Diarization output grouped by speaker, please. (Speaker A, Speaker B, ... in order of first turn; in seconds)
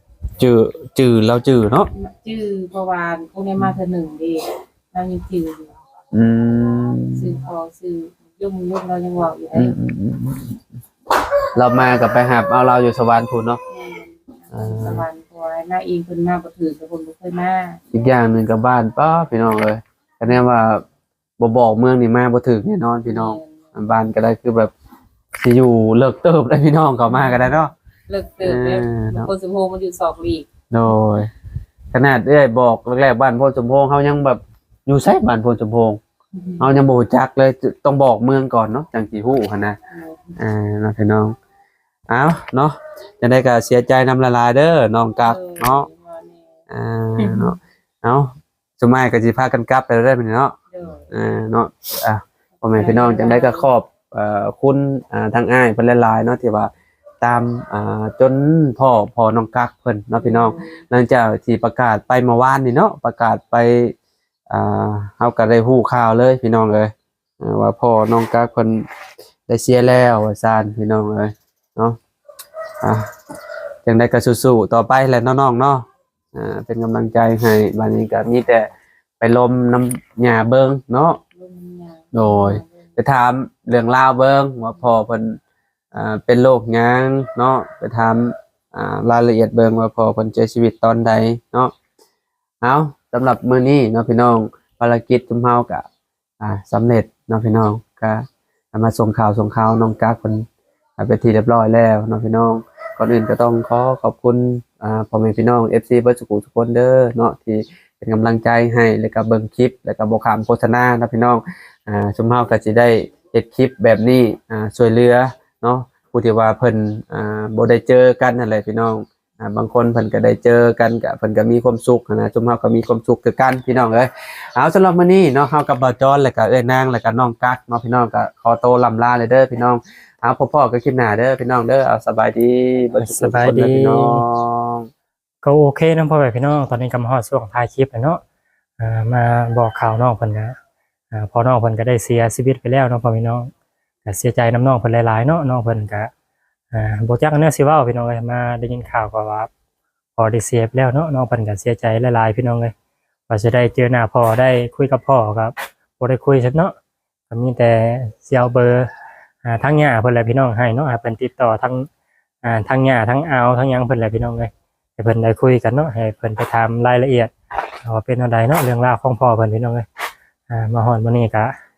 Speaker A: 0.4-1.9, 6.1-7.4, 9.5-10.6, 11.6-13.6, 14.5-15.1, 17.9-20.8, 21.4-24.7, 25.4-27.7, 28.4-29.3, 30.7-31.3, 31.9-36.0, 36.6-39.8, 40.4-41.4, 42.1-45.9, 46.7-50.6, 51.1-63.9, 64.5-68.9, 69.5-72.0, 72.8-73.1, 73.8-78.7, 79.2-81.2, 82.1-85.4, 85.9-91.7, 92.6-95.9, 96.4-134.9
Speaker B: 1.9-5.8, 7.1-9.8, 13.7-17.8, 23.1-23.8, 28.1-30.5, 36.4-36.6, 39.9-40.4, 45.2-46.5, 47.2-47.6, 50.7-51.1, 52.6-53.7, 60.1-60.8, 81.3-82.9
Speaker C: 133.0-134.2, 135.4-138.2, 138.8-140.6, 141.1-143.5, 144.1-146.1, 146.7-149.5, 150.2-152.7, 153.3-156.7, 157.3-158.9, 159.4-161.9, 162.4-167.3, 167.8-169.9, 170.5-171.5